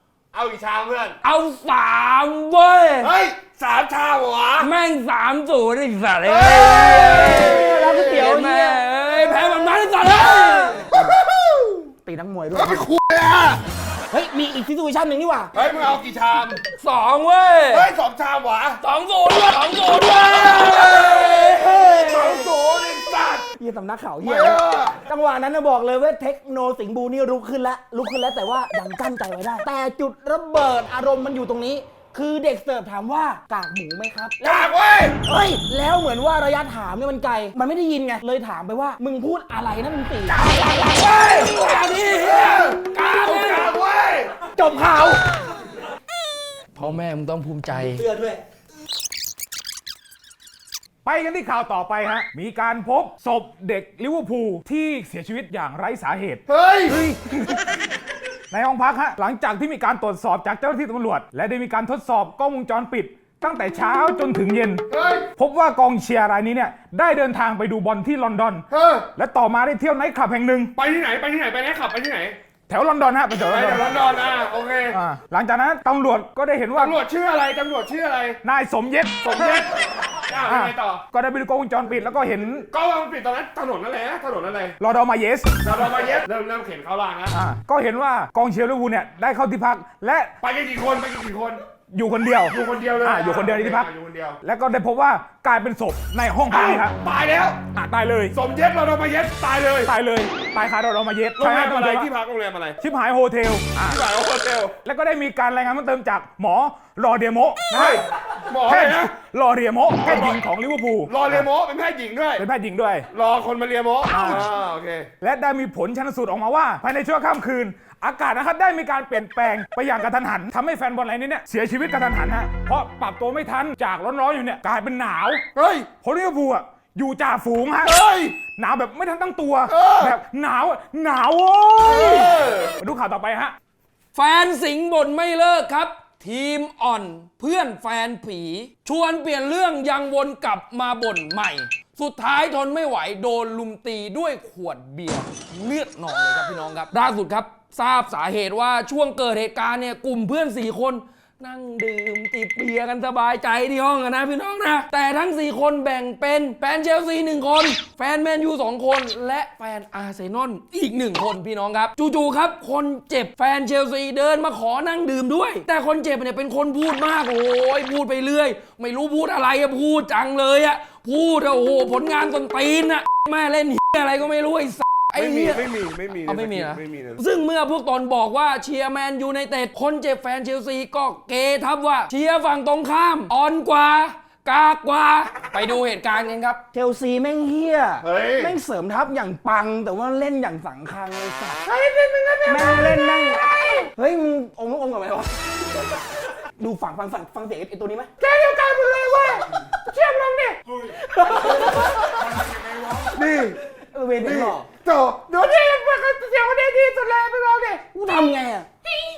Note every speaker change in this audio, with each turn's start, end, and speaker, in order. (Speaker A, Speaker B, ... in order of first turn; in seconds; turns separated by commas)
Speaker A: 0.3-1.2, Speaker B: 1.2-3.1, Speaker A: 3.0-4.7, Speaker B: 4.6-10.9, Speaker A: 6.3-8.2, Speaker C: 7.0-8.8, Speaker A: 10.9-11.8, Speaker C: 12.0-12.9, Speaker A: 12.5-13.6, Speaker C: 14.1-15.5, Speaker A: 15.5-16.6, Speaker B: 16.8-17.9, Speaker A: 17.7-18.8, Speaker B: 18.8-22.5, Speaker A: 20.5-23.4, Speaker C: 23.6-40.5, Speaker A: 24.2-24.9, Speaker A: 34.4-35.2, Speaker B: 40.3-43.7, Speaker A: 42.2-44.4, Speaker C: 44.5-45.2, Speaker B: 46.8-48.1, Speaker C: 47.8-48.4, Speaker D: 51.0-57.6, Speaker A: 56.5-57.0, Speaker D: 58.5-64.8, Speaker A: 64.9-65.3, Speaker D: 65.4-68.6, Speaker A: 68.7-69.1, Speaker D: 69.2-70.7, Speaker A: 70.8-72.4, Speaker D: 72.7-73.9, Speaker A: 73.5-75.0, Speaker D: 74.9-77.0, Speaker A: 76.8-78.4, Speaker D: 78.4-79.6, Speaker A: 79.2-81.0, Speaker D: 80.5-82.7, Speaker A: 82.7-84.8, Speaker D: 84.8-85.6, Speaker A: 85.6-87.3, Speaker D: 87.3-90.3, Speaker A: 90.4-91.6, Speaker D: 91.9-93.9, Speaker A: 92.5-94.4, Speaker D: 94.4-96.9, Speaker A: 96.5-97.6, Speaker D: 97.7-98.3, Speaker A: 98.3-99.9, Speaker D: 99.8-102.1, Speaker A: 101.4-102.8, Speaker D: 102.8-104.0, Speaker A: 103.8-104.7, Speaker D: 104.8-108.0, Speaker A: 107.7-109.1, Speaker D: 108.6-111.4, Speaker A: 110.0-110.4, Speaker A: 111.0-112.4, Speaker D: 112.4-113.1, Speaker A: 113.1-115.1, Speaker D: 114.1-114.5, Speaker D: 115.2-125.4, Speaker A: 125.5-125.9, Speaker D: 126.0-128.0, Speaker A: 127.8-128.4, Speaker D: 128.6-133.6, Speaker A: 129.7-130.1, Speaker A: 131.8-132.7, Speaker B: 134.1-175.7, Speaker A: 175.2-177.2, Speaker B: 176.2-186.6, Speaker C: 186.7-191.6, Speaker A: 188.0-188.5, Speaker A: 191.7-192.5, Speaker C: 192.4-195.4, Speaker C: 196.6-202.3, Speaker A: 203.0-203.6, Speaker C: 203.9-204.7, Speaker A: 204.2-207.7, Speaker C: 207.7-208.7